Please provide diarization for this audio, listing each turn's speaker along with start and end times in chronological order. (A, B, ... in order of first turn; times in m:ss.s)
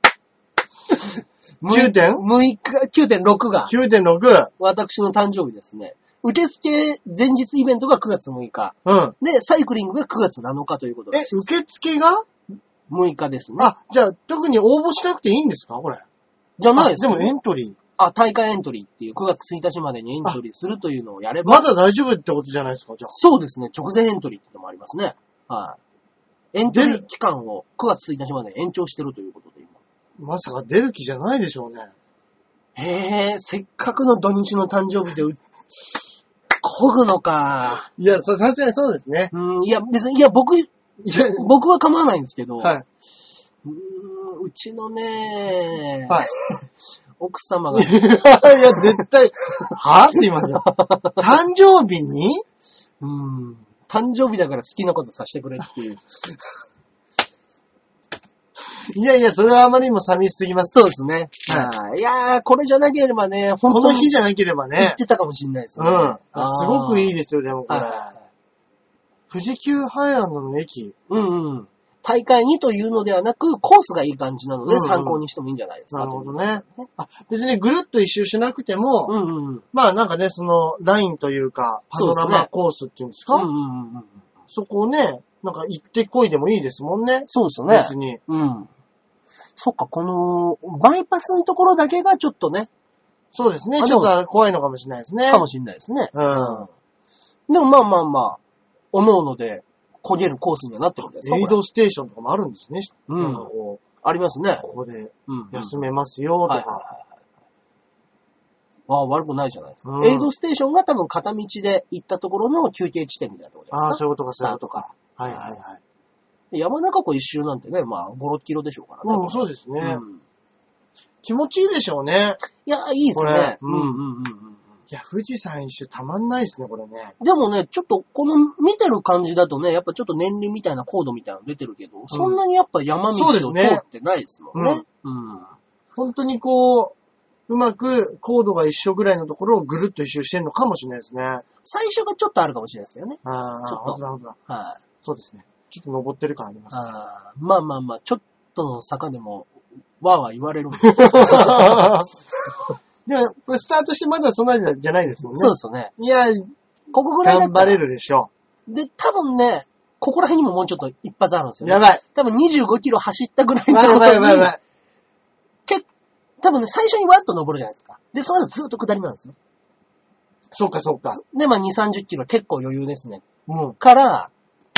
0:00.9-0:03.8 A
0:01.7-0:02.2 B
0:03.7-0:04.5 B
0:04.6-0:11.4 A
0:08.8-0:09.2 B
0:11.1-0:12.3 B
0:12.9-0:13.7 A
0:13.6-0:16.1 B
0:16.6-0:17.3 A
0:16.8-0:17.8 B
0:18.0-0:21.7 A
0:21.4-0:23.1 B
0:23.1-0:25.8 A
0:26.5-0:29.8 A
0:26.7-0:27.0 B
0:30.2-0:31.9 B
0:32.8-0:37.9 A
0:38.0-0:39.3 B
0:39.3-0:42.8 A
0:41.0-0:41.5 B
0:43.6-0:49.0 A
0:47.7-0:50.7 B
0:50.6-0:51.2 A
0:51.2-0:52.4 B
0:53.0-0:56.5 A
0:58.8-1:00.8 B
1:00.7-1:04.1 A
1:03.7-1:05.0 B
1:04.8-1:07.2 A
1:05.8-1:08.1 B
1:07.7-1:08.2 A
1:09.3-1:11.0 B
1:11.1-1:16.9 A
1:14.7-1:15.2 B
1:15.9-1:19.1 B
1:19.1-1:19.6 A
1:19.7-1:23.5 B
1:21.9-1:22.5 A
1:23.3-1:24.2 A
1:24.5-1:28.2 B
1:27.3-1:28.7 A
1:29.6-1:32.7 A
1:33.3-1:35.4 B
1:33.8-1:34.1 A
1:35.3-1:36.7 A
1:36.1-1:36.7 B
1:37.5-1:38.4 A
1:38.9-1:41.6 A
1:41.2-1:43.8 B
1:43.1-1:43.5 A
1:44.0-1:44.7 A
1:44.6-1:46.9 B
1:45.3-1:45.8 A
1:46.5-1:47.0 A
1:48.9-1:55.6 A
1:49.8-1:50.3 B
1:53.7-1:55.8 B
1:56.5-2:00.2 A
1:59.0-2:00.0 B
2:01.2-2:02.4 B
2:02.5-2:04.8 A
2:03.1-2:04.0 B
2:04.9-2:07.2 B
2:07.2-2:15.6 A
2:12.1-2:12.4 B
2:13.1-2:13.8 B
2:14.5-2:14.8 B
2:16.0-2:17.0 B
2:17.5-2:21.4 B
2:21.6-2:24.8 A
2:23.2-2:24.4 B
2:25.0-2:26.8 B
2:26.7-2:32.7 A
2:30.8-2:32.1 B
2:33.0-2:36.5 B
2:35.3-2:35.9 A
2:36.9-2:37.8 A
2:37.2-2:38.3 B
2:38.7-2:44.6 A
2:41.6-2:42.0 B
2:43.7-2:44.6 B
2:46.4-2:49.4 A
2:50.5-2:51.2 B
2:51.3-2:53.3 A
2:53.5-2:53.8 B
2:53.8-2:54.3 A